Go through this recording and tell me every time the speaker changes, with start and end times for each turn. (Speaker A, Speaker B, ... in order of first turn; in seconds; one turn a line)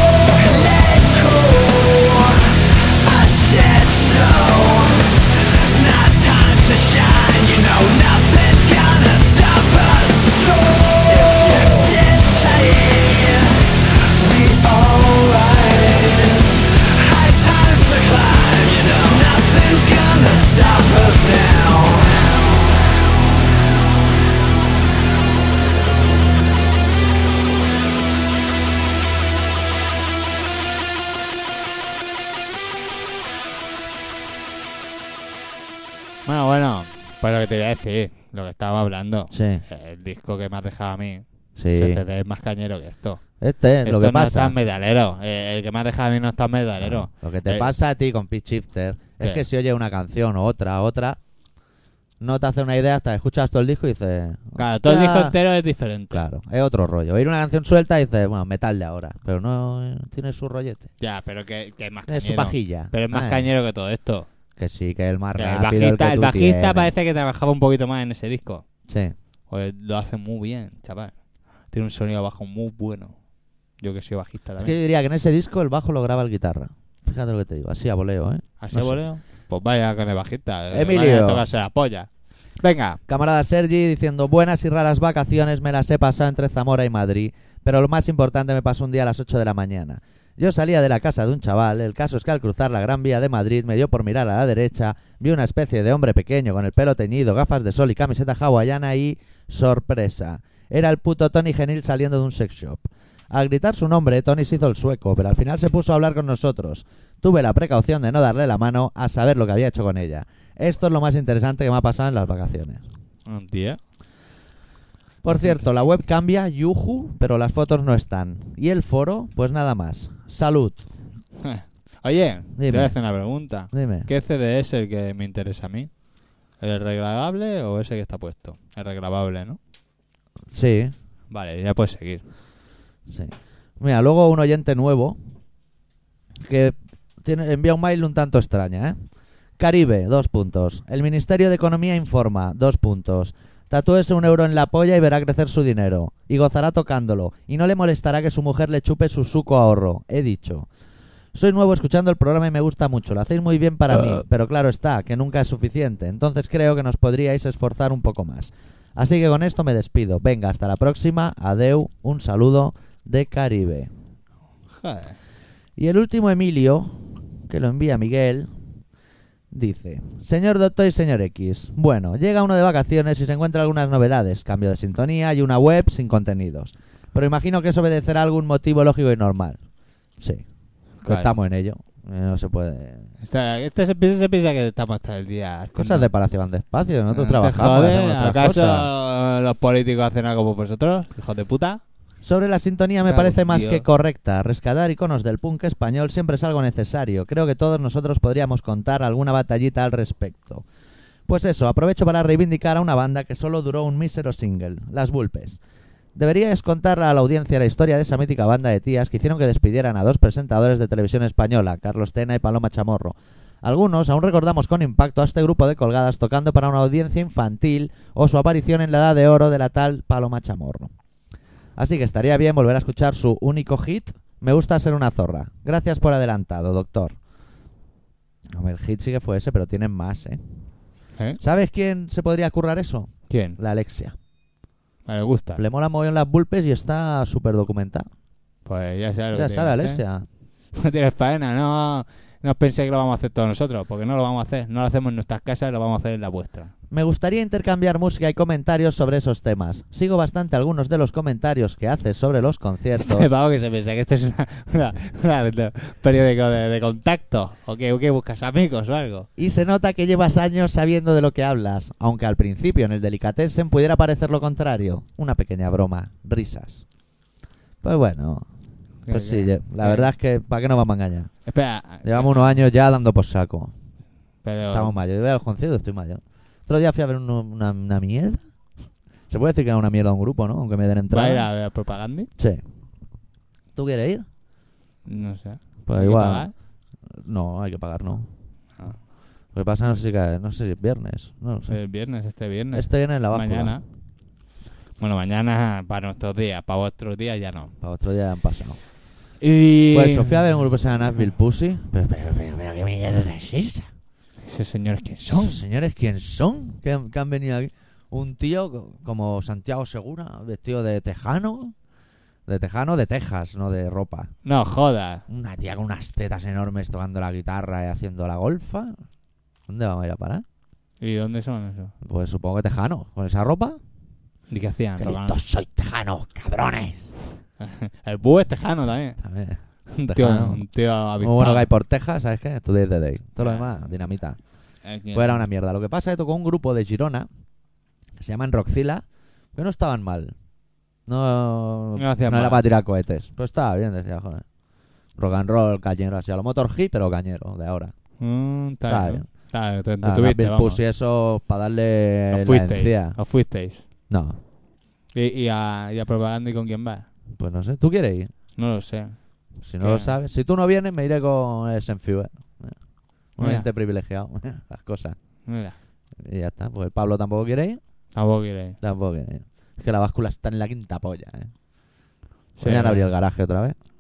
Speaker A: 0.3-22.3
Speaker B: 36.2-43.2
Speaker C: 39.3-39.6
Speaker C: 41.5-42.0
Speaker C: 43.4-44.5
Speaker B: 43.8-47.7
Speaker C: 46.8-51.2
Speaker C: 52.2-55.4
Speaker B: 54.6-56.2
Speaker C: 56.1-60.9
Speaker B: 61.0-64.3
Speaker C: 62.1-63.5
Speaker C: 64.6-66.9
Speaker B: 65.3-68.6
Speaker C: 68.9-69.1
Speaker B: 69.5-71.2
Speaker B: 71.7-73.2
Speaker B: 73.8-74.8
Speaker C: 74.6-79.0
Speaker B: 78.6-83.0
Speaker C: 80.7-81.4
Speaker C: 83.1-112.8
Speaker B: 113.2-113.8
Speaker C: 115.2-120.8
Speaker B: 115.3-115.6
Speaker B: 121.4-125.9
Speaker C: 122.5-123.0
Speaker C: 123.7-124.1
Speaker B: 126.6-129.6
Speaker C: 130.5-130.9
Speaker B: 131.3-132.2
Speaker C: 133.1-135.2
Speaker C: 136.4-138.9
Speaker C: 139.6-150.7
Speaker C: 151.3-163.9
Speaker B: 164.8-165.2
Speaker C: 165.8-168.5
Speaker C: 169.5-179.6
Speaker C: 180.2-180.4
Speaker B: 181.0-181.3
Speaker C: 181.0-183.1
Speaker B: 183.2-186.1
Speaker C: 185.7-188.9
Speaker B: 187.1-191.8
Speaker C: 192.2-200.6
Speaker B: 193.0-193.8
Speaker C: 201.3-205.6
Speaker C: 206.1-220.9
Speaker C: 221.8-227.2
Speaker C: 228.5-230.4
Speaker C: 231.4-234.1
Speaker B: 233.3-233.6
Speaker B: 235.1-235.6
Speaker C: 235.6-238.1
Speaker B: 238.7-240.0
Speaker C: 239.3-240.2
Speaker B: 240.7-246.7
Speaker C: 246.9-253.3
Speaker B: 253.0-259.3
Speaker C: 259.4-266.8
Speaker C: 267.8-268.5
Speaker B: 269.1-270.1
Speaker C: 269.1-271.3
Speaker B: 271.4-272.6
Speaker C: 272.0-273.7
Speaker B: 274.4-274.9
Speaker C: 274.7-278.4
Speaker C: 279.3-281.5
Speaker B: 281.1-282.3
Speaker C: 283.8-284.2
Speaker B: 285.1-286.5
Speaker C: 285.9-286.5
Speaker C: 287.1-288.3
Speaker B: 288.8-289.0
Speaker C: 289.5-291.8
Speaker B: 291.7-293.8
Speaker C: 292.7-293.8
Speaker B: 295.0-297.7
Speaker C: 297.8-298.8
Speaker B: 299.4-300.4
Speaker C: 299.9-303.9
Speaker B: 304.4-305.6
Speaker C: 305.3-311.7
Speaker C: 312.5-314.3
Speaker B: 314.4-315.2
Speaker C: 315.3-318.9
Speaker C: 319.7-320.4
Speaker B: 321.0-321.9
Speaker C: 322.0-323.8
Speaker B: 324.5-325.4
Speaker C: 325.0-327.1
Speaker B: 327.6-329.2
Speaker C: 329.2-330.6
Speaker B: 329.9-331.7
Speaker C: 331.2-334.4
Speaker B: 333.4-333.9
Speaker B: 334.8-335.4
Speaker C: 335.1-337.3
Speaker C: 338.2-340.3
Speaker C: 341.1-344.4
Speaker B: 342.0-342.6
Speaker C: 345.2-347.9
Speaker B: 348.2-350.8
Speaker C: 348.9-349.3
Speaker C: 350.0-353.2
Speaker B: 352.3-353.9
Speaker C: 354.1-354.4
Speaker B: 355.1-357.1
Speaker C: 357.4-358.3
Speaker B: 358.6-359.2
Speaker C: 359.6-362.8
Speaker B: 359.8-360.1
Speaker C: 363.4-365.1
Speaker B: 363.4-363.7
Speaker B: 365.4-365.7
Speaker C: 366.2-367.8
Speaker B: 368.1-368.8
Speaker C: 368.8-371.5
Speaker B: 372.6-373.1
Speaker C: 372.6-373.8